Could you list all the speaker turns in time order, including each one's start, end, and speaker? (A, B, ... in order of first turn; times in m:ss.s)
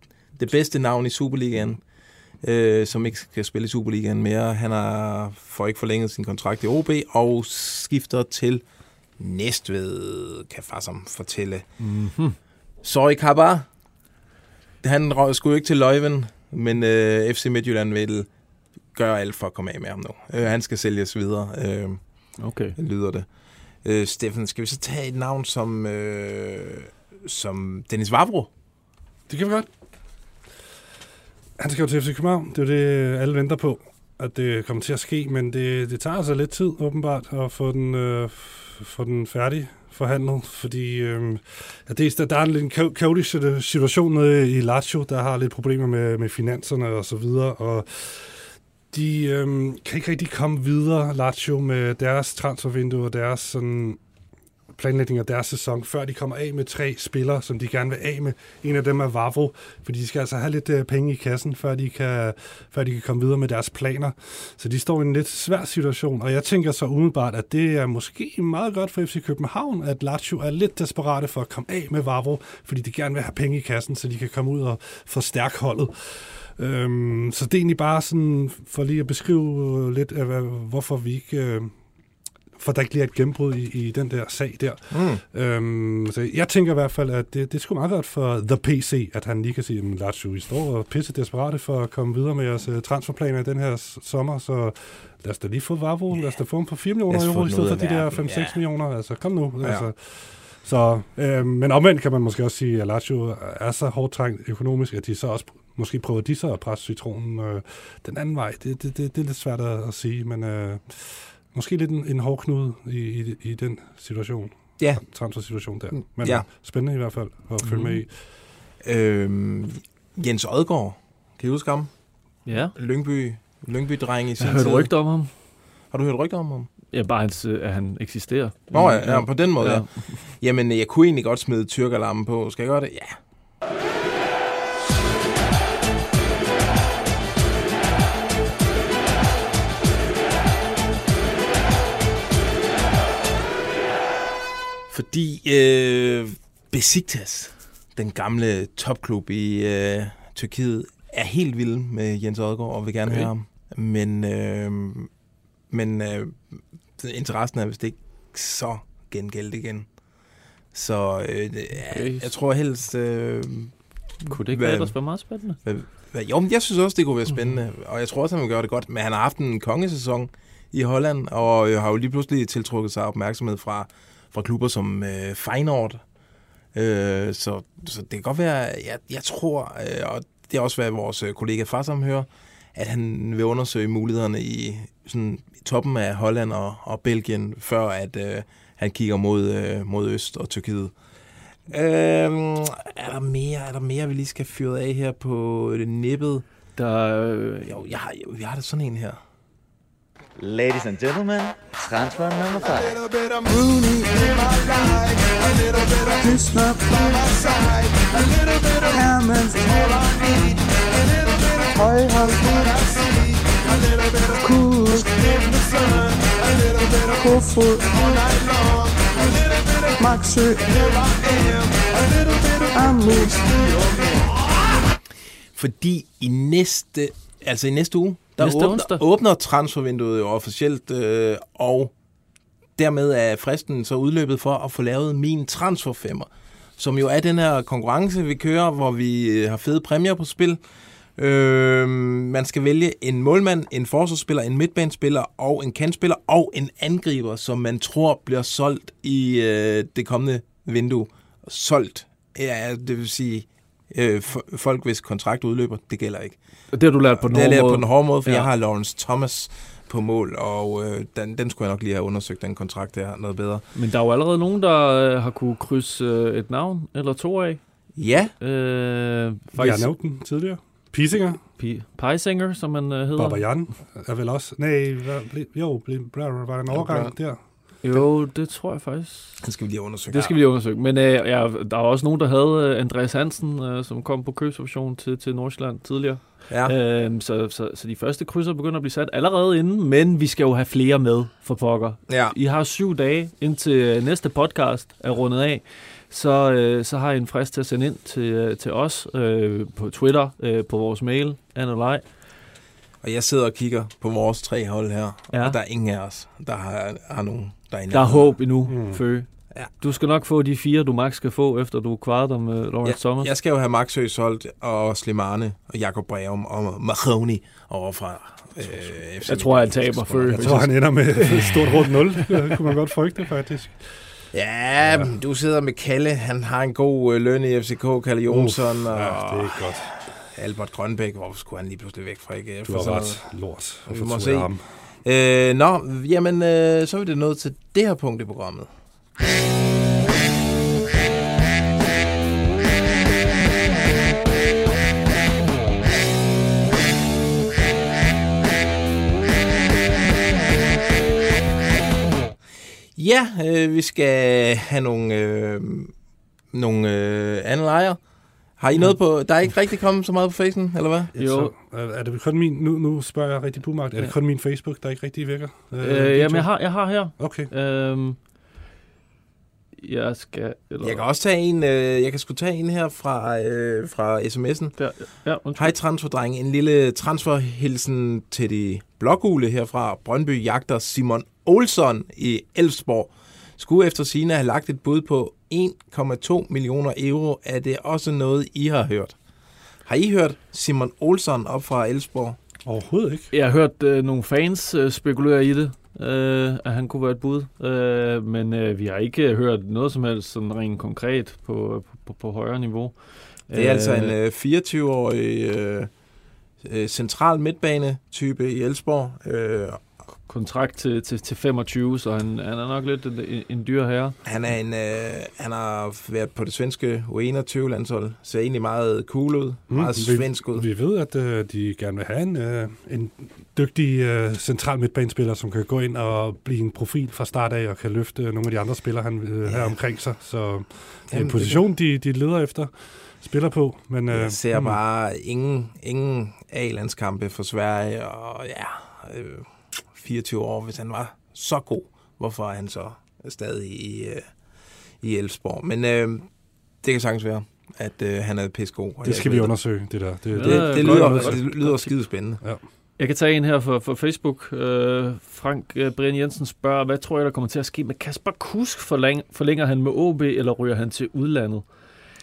0:00.4-0:01.8 A
0:02.4-0:08.6 A
0:09.2-0:11.7 A
0:11.8-0:12.4 B
0:12.8-0:13.7 A
0:14.8-0:18.3 A
0:18.9-0:23.3 A
0:22.4-0:22.8 B
0:23.8-0:28.5 A
0:29.3-0:29.7 C
0:31.6-0:54.0 C
0:54.7-1:21.7 C
1:22.6-1:58.1 C
1:24.9-1:25.2 A
1:37.1-1:38.6 A
1:39.6-1:39.9 A
1:54.8-1:55.0 A
1:55.9-1:56.5 A
1:57.6-1:58.0 B
1:58.8-2:01.9 A
2:02.5-2:02.7 B
2:02.7-2:04.9 A
2:04.4-2:05.3 B
2:05.9-2:06.7 A
2:06.9-2:10.2 B
2:08.7-2:13.2 A
2:24.9-2:35.1 A
2:35.7-2:39.9 A
2:40.7-2:43.7 A
2:41.9-2:42.3 B
2:44.2-2:45.6 B
2:44.3-2:45.0 A
2:45.6-2:56.0 A
2:56.8-3:10.9 A
3:11.7-3:16.4 A
3:16.8-3:17.8 B
3:17.7-3:19.2 A
3:20.4-3:23.0 D
3:23.0-3:44.4 E
3:45.6-3:51.9 A
3:48.4-3:49.0 B
3:52.8-4:00.6 A
4:01.2-4:16.4 A
4:16.7-4:18.5 B
4:17.2-4:23.6 A
4:23.8-4:30.0 B
4:28.0-4:28.3 A
4:29.6-4:31.4 C
4:31.6-4:33.5 B
4:33.2-4:37.4 C
4:36.7-4:37.1 A
4:37.8-4:39.4 B
4:39.4-4:40.4 A
4:40.1-5:02.0 B
4:46.5-4:46.7 A
4:52.1-4:52.4 A
5:03.0-5:08.3 A
5:05.3-5:05.6 B
5:07.9-5:13.3 B
5:08.7-5:09.0 C
5:12.8-5:21.0 A
5:18.6-5:18.9 C
5:19.3-5:20.6 B
5:20.3-5:24.2 C
5:21.2-5:21.9 B
5:24.3-5:38.7 A
5:24.8-5:25.1 C
5:28.3-5:29.9 C
5:32.6-5:34.7 C
5:53.0-5:55.9 A
5:56.5-5:58.0 A
5:58.6-6:01.1 A
6:01.1-6:06.5 C
6:01.2-6:01.5 B
6:05.8-6:08.2 B
6:07.1-6:07.5 C
6:09.8-6:11.0 B
6:10.8-6:14.8 A
6:14.8-6:15.7 B
6:15.6-6:29.2 A
6:29.9-6:32.4 A
6:32.6-6:33.3 C
6:33.3-6:44.2 B
6:43.5-6:45.9 A
6:46.6-6:49.8 A
6:50.3-6:54.2 B
6:54.2-7:00.7 A
6:59.7-7:14.8 C
7:09.5-7:09.8 A
7:11.1-7:11.6 A
7:14.1-7:24.2 A
7:25.0-7:26.3 A
7:26.8-7:32.4 A
7:29.0-7:31.6 C
7:30.3-7:31.9 B
7:33.0-7:41.6 B